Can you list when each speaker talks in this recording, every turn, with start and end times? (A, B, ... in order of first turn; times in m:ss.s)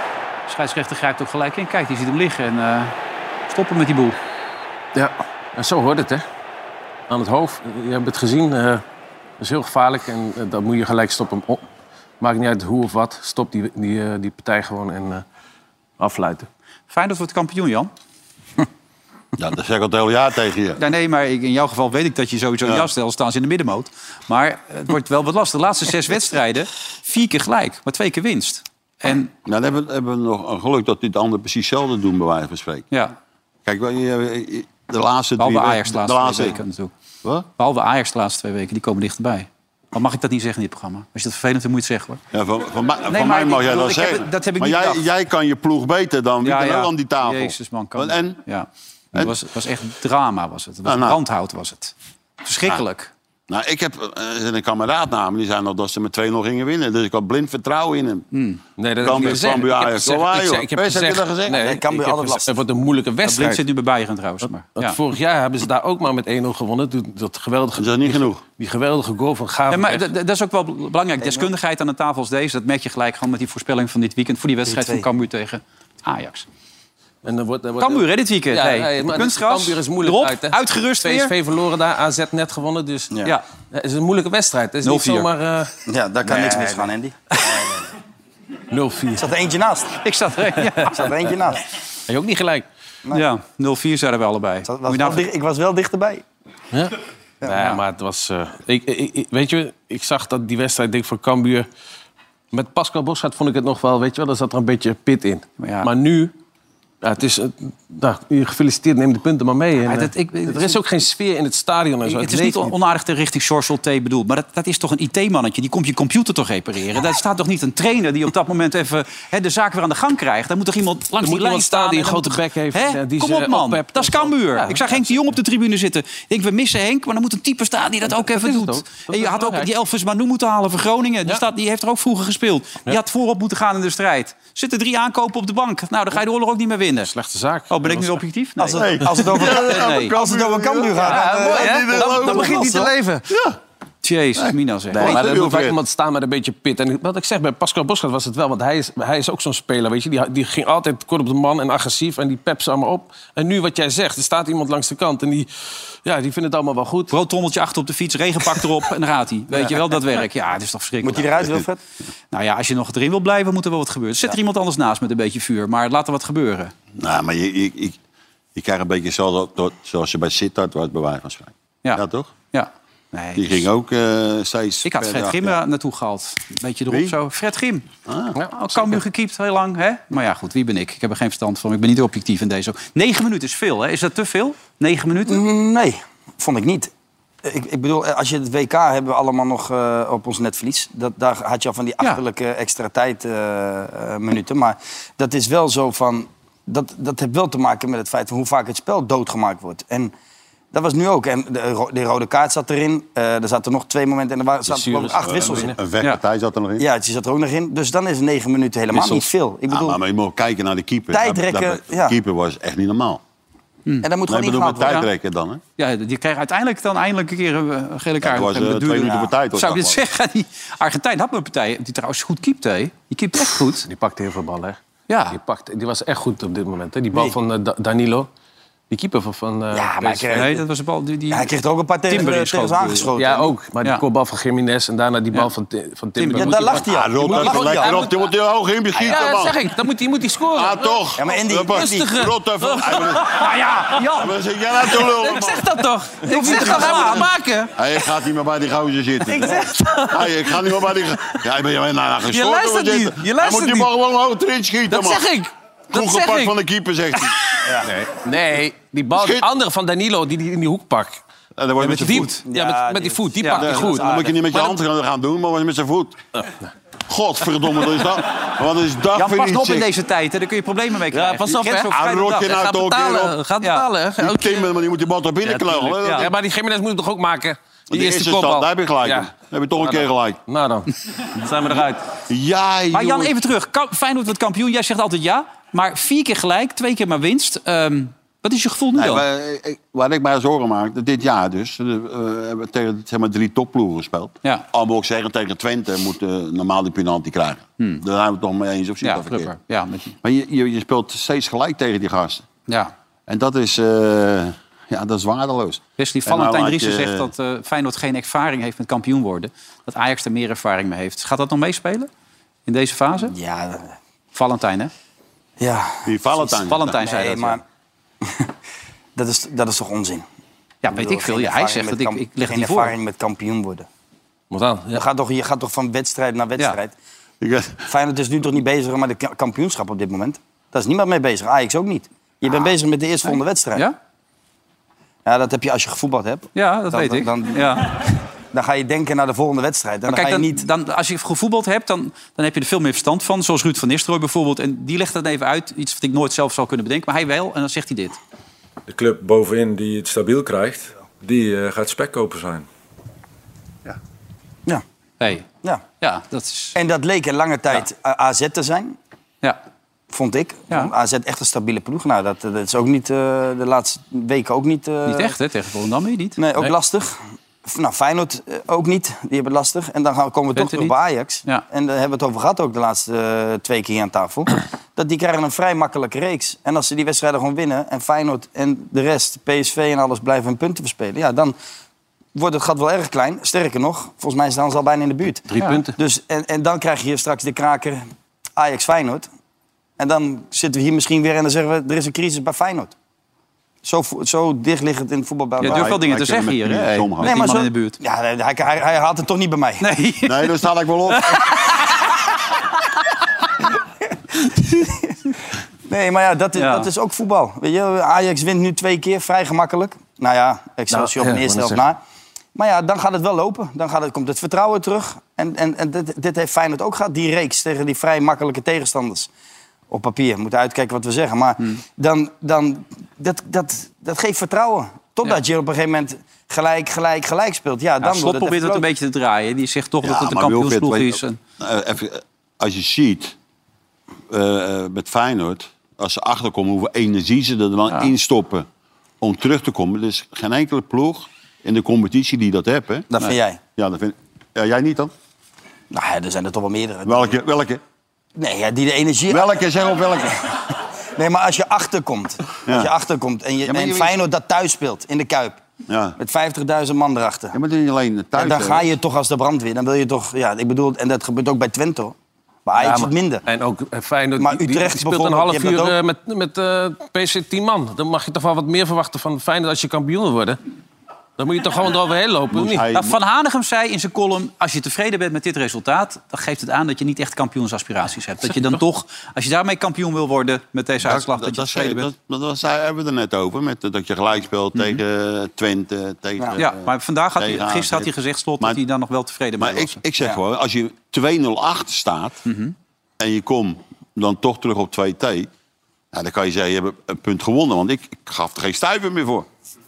0:00.5-0:02.9 A
0:03.5-0:04.2 A
0:04.9-0:06.2 B
0:07.1-0:08.8 B
0:09.4-0:11.6 B
0:12.2-0:15.2 B
0:16.0-0:16.5 B
0:16.9-0:17.9 A
0:19.4-0:20.8 C
0:20.8-0:29.3 A
0:29.4-0:32.9 C
0:33.6-0:36.6 C
0:35.4-0:36.9 A
0:37.6-0:42.2 A
0:42.3-0:48.4 C
0:43.1-0:45.0 A
0:46.4-0:53.1 A
0:50.8-0:51.2 C
0:53.5-0:58.2 C
0:58.3-0:58.6 A
0:58.8-1:03.6 B
0:59.0-1:01.6 C
1:01.5-1:02.5 D
1:03.2-1:05.0 A
1:04.7-1:10.1 B
1:07.8-1:08.4 C
1:09.7-1:16.4 A
1:11.2-1:11.5 D
1:14.6-1:15.0 D
1:17.2-1:23.1 B
1:17.8-1:21.3 A
1:23.7-1:25.7 B
1:24.8-1:25.3 A
1:25.9-1:27.7 D
1:26.2-1:26.9 B
1:28.7-1:29.3 B
1:29.2-1:30.0 D
1:30.0-1:31.1 A
1:30.9-1:31.6 D
1:32.1-1:32.6 B
1:33.1-1:35.2 A
1:34.6-1:36.2 D
1:36.7-1:41.7 B
1:42.5-1:46.3 B
1:45.6-1:45.9 A
1:47.0-1:52.7 B
1:49.8-1:50.8 A
1:52.1-2:17.1 A
2:01.2-2:05.2 B
2:08.0-2:09.7 B
2:17.1-2:18.2 B
2:17.7-2:20.1 A
2:18.6-2:22.9 D
2:18.8-2:23.6 C
2:21.0-2:23.2 B
2:24.0-2:25.4 A
2:24.4-2:25.8 C
2:24.9-2:35.5 B
2:36.0-2:37.1 B
2:37.1-2:41.5 A
2:41.0-2:41.8 D
2:42.3-2:46.7 A
2:47.0-2:48.0 C
2:48.5-2:52.3 C
2:51.8-2:53.7 A
2:53.4-2:55.6 C
2:54.8-2:57.9 A
2:56.9-2:57.1 C
2:58.0-2:58.4 C
2:58.3-2:59.0 B
2:58.5-3:05.4 A
3:05.3-3:06.9 D
3:07.4-3:20.1 D
3:20.7-3:25.8 D
3:24.6-3:25.8 B
3:25.2-3:26.8 C
3:26.8-3:30.0 D
3:28.9-3:29.2 A
3:29.7-3:33.2 C
3:31.1-3:32.2 D
3:34.0-3:35.0 D
3:34.2-3:35.6 C
3:34.8-3:35.1 A
3:35.8-3:43.9 A
3:38.2-3:40.0 C
3:43.8-3:44.8 B
3:45.1-3:45.4 A
3:45.3-3:48.3 B
3:48.9-3:50.5 B
3:49.7-3:50.6 D
3:50.3-3:51.5 A
3:51.3-3:53.5 D
3:52.1-3:53.1 A
3:53.2-3:58.3 B
3:56.2-3:56.6 A
3:56.3-3:58.0 D
3:56.8-3:59.5 C
3:59.0-4:01.0 B
4:00.5-4:15.3 C
4:01.2-4:02.1 D
4:01.7-4:03.9 B
4:03.3-4:04.3 A
4:05.0-4:07.7 B
4:06.1-4:07.3 A
4:09.2-4:10.9 B
4:12.3-4:13.9 B
4:14.9-4:16.4 B
4:15.9-4:17.4 C
4:17.8-4:21.2 B
4:19.2-4:19.4 C
4:21.6-4:22.4 C
4:21.8-4:24.8 B
4:22.5-4:24.3 D
4:23.5-4:26.2 C
4:27.1-4:29.9 C
4:29.2-4:32.6 A
4:31.1-4:34.7 B
4:31.9-4:33.4 C
4:33.6-4:33.9 A
4:34.2-4:36.3 C
4:35.4-4:39.3 B
4:37.9-4:40.4 C
4:39.8-4:42.0 B
4:42.3-4:43.4 C
4:42.9-4:49.2 A
4:48.9-4:59.6 C
4:59.0-5:00.2 A
5:00.2-5:02.4 C
5:02.7-5:02.9 A
5:03.3-5:07.3 C
5:06.0-5:12.1 A
5:12.7-5:13.3 A
5:13.2-5:14.0 D
5:14.3-5:14.9 A
5:15.6-5:17.6 D
5:16.0-5:17.0 C
5:16.4-5:17.6 A
5:18.2-5:18.5 D
5:19.2-5:20.2 D
5:20.8-5:22.9 A
5:20.9-5:23.9 D
5:24.5-5:25.0 B
5:24.9-5:26.9 D
5:27.4-5:27.8 C
5:27.9-5:33.8 D
5:33.2-5:34.0 A
5:35.2-5:37.7 D
5:36.5-5:37.9 A
5:38.5-5:40.6 D
5:40.1-5:48.2 A
5:48.9-5:52.7 E
5:55.2-5:55.5 A
5:56.0-5:56.8 A
5:56.7-5:59.0 D
6:00.1-6:05.3 D
6:05.0-6:06.4 A
6:06.4-6:21.5 D
6:10.5-6:11.6 A
6:22.3-6:29.3 D
6:25.5-6:25.9 B
6:25.6-6:25.8 A
6:30.0-6:32.9 D
6:33.8-6:35.9 D
6:35.6-6:37.4 C
6:35.6-6:38.0 A
6:37.2-6:39.8 D
6:39.8-6:40.6 A
6:40.2-6:41.4 C
6:41.1-6:41.7 A
6:44.5-6:45.1 D
6:45.9-6:52.0 D
6:46.6-6:46.9 A
6:50.9-6:51.8 B
6:52.5-6:59.3 D
6:59.9-7:08.8 D
7:08.0-7:11.4 A
7:10.0-7:13.3 C
7:14.3-7:18.6 C
7:19.2-7:23.1 C
7:23.1-7:23.6 D
7:23.8-7:25.1 C
7:25.9-7:27.4 D
7:27.0-7:27.8 C
7:28.4-7:29.5 D
7:29.3-7:30.4 C
7:31.2-7:35.6 D
7:32.6-7:32.9 C
7:33.6-7:34.2 C
7:35.9-7:36.2 C
7:36.2-7:37.6 D
7:37.5-7:38.9 C
7:38.4-7:42.1 D
7:42.6-7:43.4 D
7:42.8-7:50.6 B
7:44.4-7:46.0 D
7:51.4-7:52.8 B
7:52.5-7:53.2 C
7:52.9-8:02.1 A
8:01.0-8:08.8 C
8:04.7-8:05.0 A
8:06.6-8:10.0 A
8:09.6-8:12.4 C
8:12.4-8:12.7 A
8:13.2-8:15.5 C
8:16.1-8:19.5 C